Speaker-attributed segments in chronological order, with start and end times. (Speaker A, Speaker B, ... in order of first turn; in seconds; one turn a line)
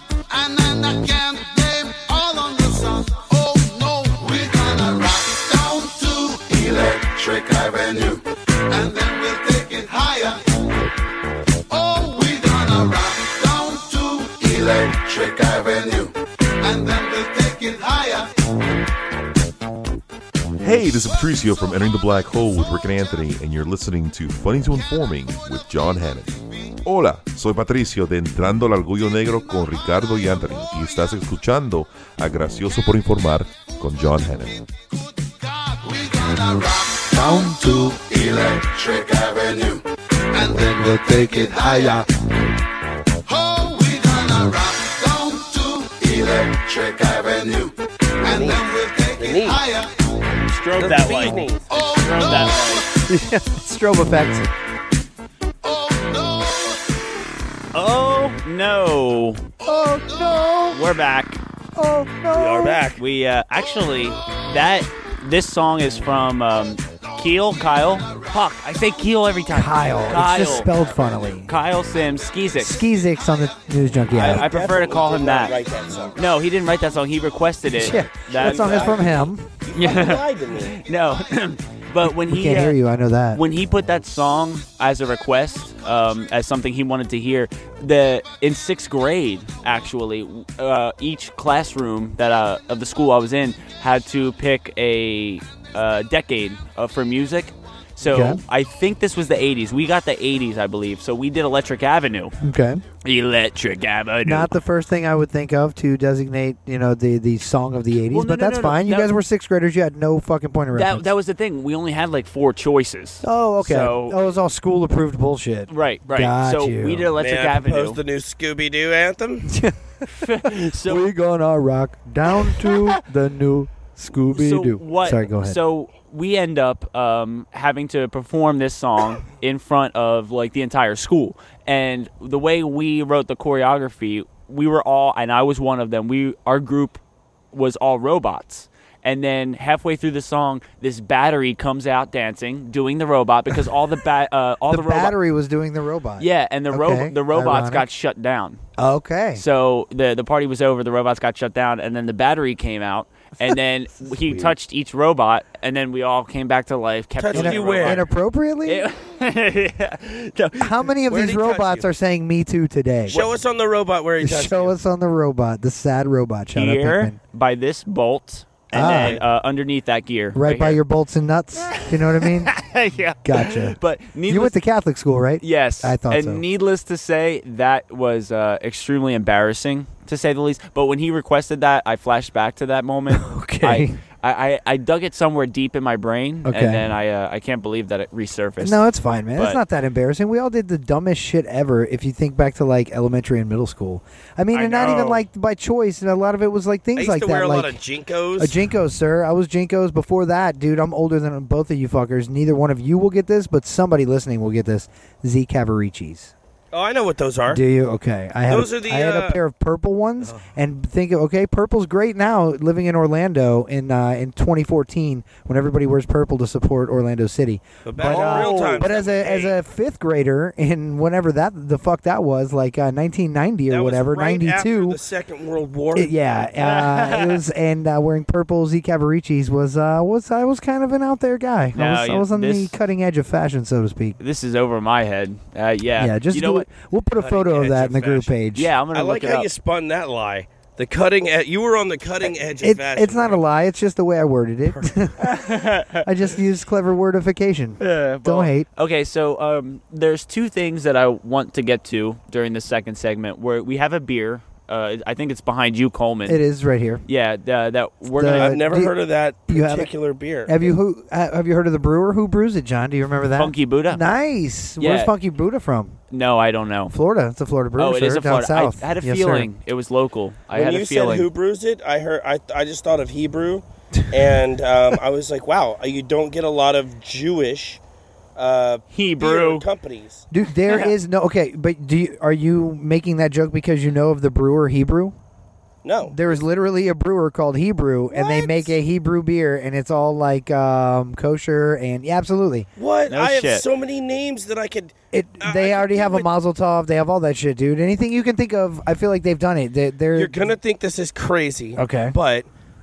Speaker A: 0.3-10.7
Speaker A: 11.7-18.3
Speaker B: 20.6-34.6
Speaker A: 34.9-42.1
Speaker C: 37.1-38.0
Speaker C: 40.5-42.1
Speaker A: 43.2-50.2
Speaker D: 48.2-49.6
Speaker E: 50.4-52.8
Speaker D: 50.8-51.7
Speaker A: 51.7-53.0
Speaker C: 53.1-54.5
Speaker A: 55.6-57.0
Speaker E: 57.7-59.5
Speaker C: 59.6-60.8
Speaker E: 60.7-61.4
Speaker C: 61.7-62.9
Speaker D: 62.3-63.0
Speaker E: 63.0-70.7
Speaker C: 69.5-71.5
Speaker E: 71.5-72.8
Speaker C: 72.6-74.5
Speaker E: 74.1-75.6
Speaker D: 74.2-76.2
Speaker E: 76.2-79.0
Speaker C: 77.8-79.5
Speaker D: 78.3-80.8
Speaker E: 79.7-82.8
Speaker C: 82.1-83.4
Speaker E: 83.3-102.3
Speaker C: 98.0-98.4
Speaker C: 102.4-102.8
Speaker E: 103.0-104.5
Speaker C: 104.2-111.1
Speaker E: 108.1-109.1
Speaker E: 110.7-114.2
Speaker C: 113.2-117.1
Speaker E: 115.7-118.0
Speaker D: 117.2-119.5
Speaker C: 119.5-125.6
Speaker E: 120.1-121.1
Speaker E: 122.5-123.0
Speaker E: 124.3-137.0
Speaker E: 137.5-145.2
Speaker C: 144.7-147.8
Speaker E: 146.2-148.6
Speaker C: 148.8-149.4
Speaker E: 149.3-158.1
Speaker D: 157.2-158.0
Speaker C: 157.3-158.8
Speaker E: 158.7-160.9
Speaker C: 160.6-163.2
Speaker D: 161.1-161.9
Speaker D: 163.1-164.8
Speaker C: 164.2-167.2
Speaker E: 166.5-170.8
Speaker C: 168.7-169.2
Speaker D: 168.7-169.2
Speaker C: 170.3-172.6
Speaker E: 171.6-174.6
Speaker C: 173.2-173.8
Speaker C: 174.3-176.4
Speaker E: 175.4-188.8
Speaker C: 183.1-184.0
Speaker C: 186.4-186.9
Speaker C: 188.6-197.8
Speaker E: 189.3-189.6
Speaker E: 194.5-195.1
Speaker D: 194.6-195.2
Speaker D: 196.9-198.5
Speaker C: 198.4-206.3
Speaker D: 206.7-207.6
Speaker C: 207.5-225.0
Speaker D: 208.5-209.4
Speaker D: 217.8-219.6
Speaker E: 218.0-218.8
Speaker D: 223.7-226.1
Speaker C: 225.9-234.2
Speaker E: 226.6-227.4
Speaker E: 231.7-232.8
Speaker E: 234.2-236.7
Speaker C: 236.0-238.7
Speaker D: 237.2-238.3
Speaker E: 238.5-239.5
Speaker D: 238.9-243.4
Speaker C: 242.6-245.3
Speaker E: 245.2-246.1
Speaker C: 246.0-248.7
Speaker E: 247.8-256.4
Speaker C: 256.2-257.0
Speaker E: 257.1-258.6
Speaker C: 258.1-258.9
Speaker D: 258.3-260.7
Speaker C: 259.5-259.9
Speaker C: 260.4-266.0
Speaker E: 263.3-264.0
Speaker E: 264.8-265.1
Speaker E: 266.1-266.9
Speaker C: 266.9-269.5
Speaker E: 267.8-271.3
Speaker D: 270.5-277.8
Speaker D: 278.4-280.2
Speaker E: 278.9-279.6
Speaker C: 280.3-285.1
Speaker E: 280.6-280.9
Speaker D: 285.8-286.2
Speaker C: 286.0-292.7
Speaker D: 288.1-288.7
Speaker D: 292.8-296.3
Speaker E: 293.1-293.6
Speaker C: 295.1-300.5
Speaker D: 300.1-302.5
Speaker C: 301.8-302.1